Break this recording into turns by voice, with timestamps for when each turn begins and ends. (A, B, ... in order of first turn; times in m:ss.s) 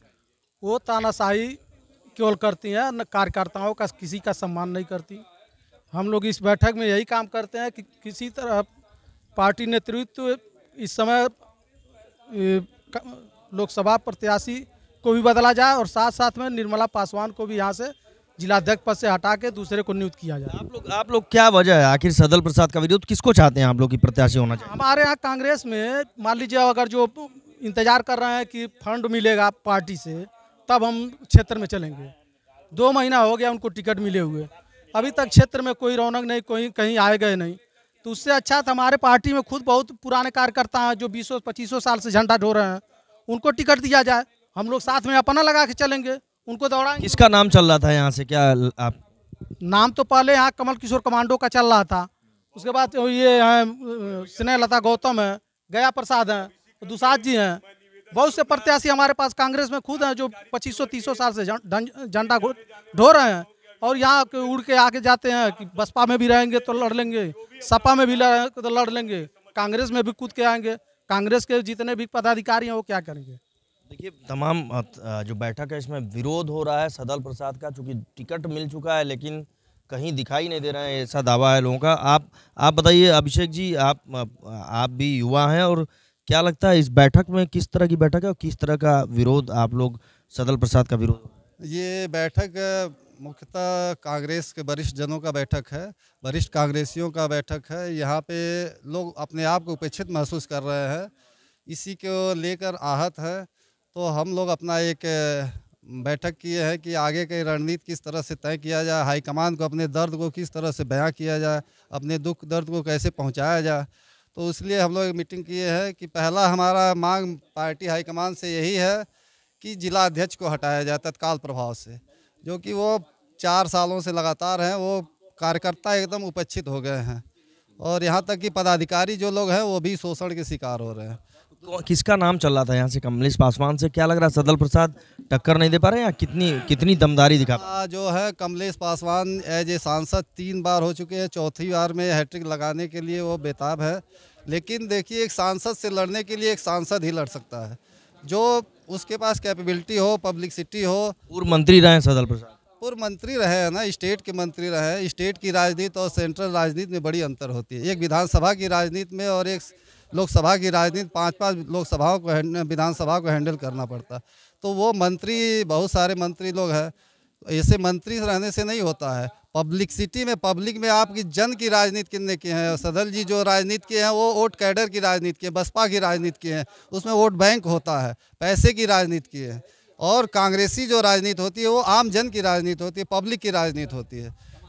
0:00.6-0:01.6 A
0:02.2-0:05.2 A
0:05.9-0:08.7 A
0:09.4-0:11.4 A
0:12.3-0:20.6 A
0:20.5-0:24.8 B
0:24.6-0:32.1 A
0:32.7-0:47.2 A
0:47.0-0:49.0 B
0:49.6-1:13.4 A
1:13.9-1:31.3 B
1:31.6-1:41.1 C
1:41.7-1:59.1 C
1:59.6-2:07.2 C
2:07.8-2:11.2 C
2:11.6-2:17.7 B
2:17.6-2:31.2 C
2:31.3-2:32.5 B
2:32.8-2:46.9 C
2:47.5-3:04.4 C